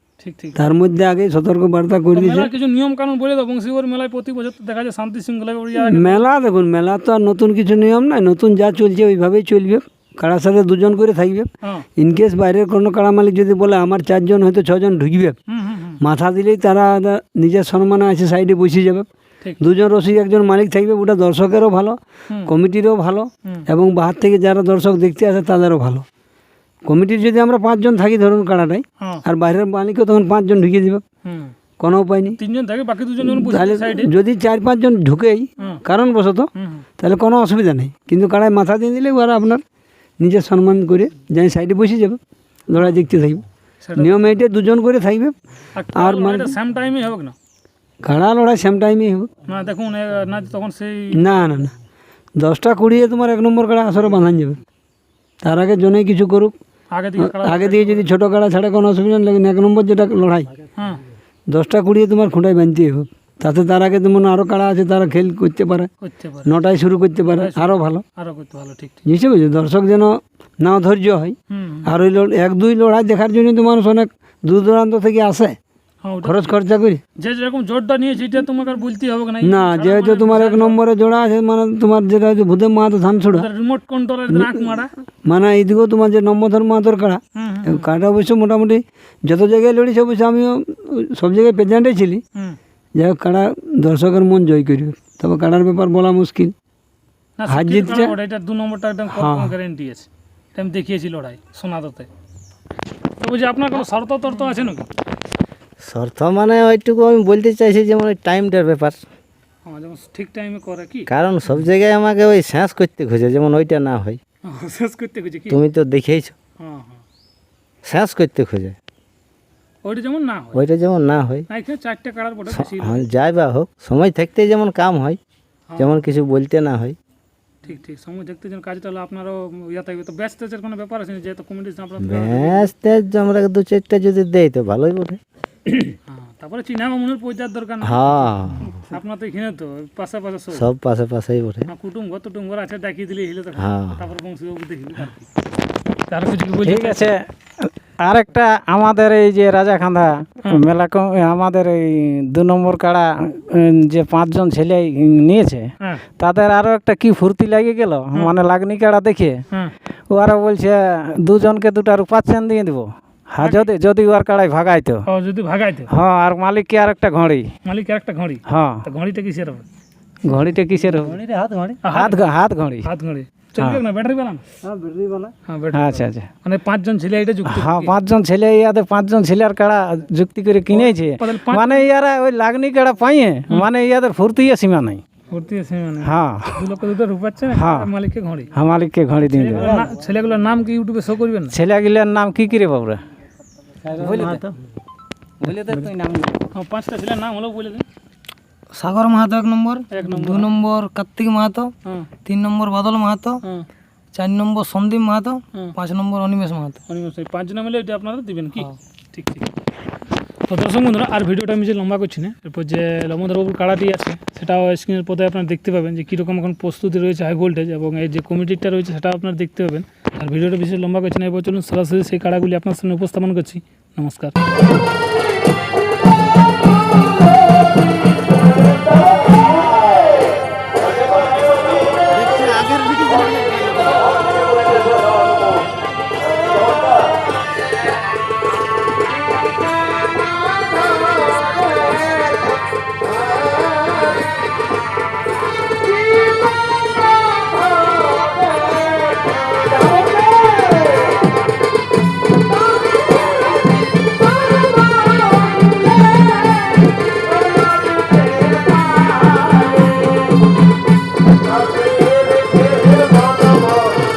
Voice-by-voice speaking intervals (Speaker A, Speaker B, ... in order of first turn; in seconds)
Speaker A: 0.2-0.7, 2.1-6.3, 15.5-16.0, 31.2-31.5, 32.4-34.1, 36.5-36.8, 43.8-44.2, 45.7-47.3, 49.5-51.5, 56.9-58.1, 60.8-61.0, 66.0-66.5, 67.3-69.0, 71.5-71.9, 76.0-76.5, 77.2-80.8, 83.3-84.9, 87.4-87.9, 97.4-102.1, 103.2-104.9, 109.6-111.1, 114.4-115.6, 116.6-117.0, 119.8-120.6, 121.5-123.0, 125.7-126.0, 127.6-132.7, 135.7-140.7, 141.7-145.3, 146.1-147.1, 163.4-163.7, 165.1-165.9, 167.6-169.6, 171.8-172.2, 172.8-174.4, 175.5-177.9, 180.7-181.9, 185.3-188.5, 189.3-191.6, 194.1-194.3, 196.5-197.8, 199.9-200.5, 206.9-209.5, 210.5-224.3
Speaker B: 0.6-2.5, 5.8-15.4, 16.0-19.1, 19.6-26.0, 26.8-31.0, 31.8-32.4, 33.2-36.5, 37.0-39.6, 40.2-43.4, 44.0-45.4, 45.9-46.5, 48.0-49.3, 51.1-51.7, 52.4-54.6, 55.4-56.5, 57.2-60.5, 61.5-65.9, 66.4-68.0, 69.0-75.5, 76.2-77.0, 79.4-83.5, 84.3-92.2, 93.0-96.5, 97.5-98.1, 99.1-99.5, 174.7-175.3
Speaker C: 105.8-109.0, 111.1-114.2, 115.5-116.3, 117.8-118.8, 120.5-121.5, 122.5-125.2, 125.8-127.0, 132.0-135.2, 137.8-138.7, 140.5-141.7, 143.6-144.0
Speaker D: 146.7-159.4, 160.1-165.0, 165.9-167.4, 168.5-168.8, 170.2-171.2, 171.9-172.9, 175.7-176.3, 177.5-185.0, 186.0-186.5, 187.5-187.9, 188.5-189.8, 191.5-193.0, 193.8-194.4, 195.4-196.4
Speaker E: 171.2-171.8, 198.7-201.7, 202.2-203.4, 204.1-206.8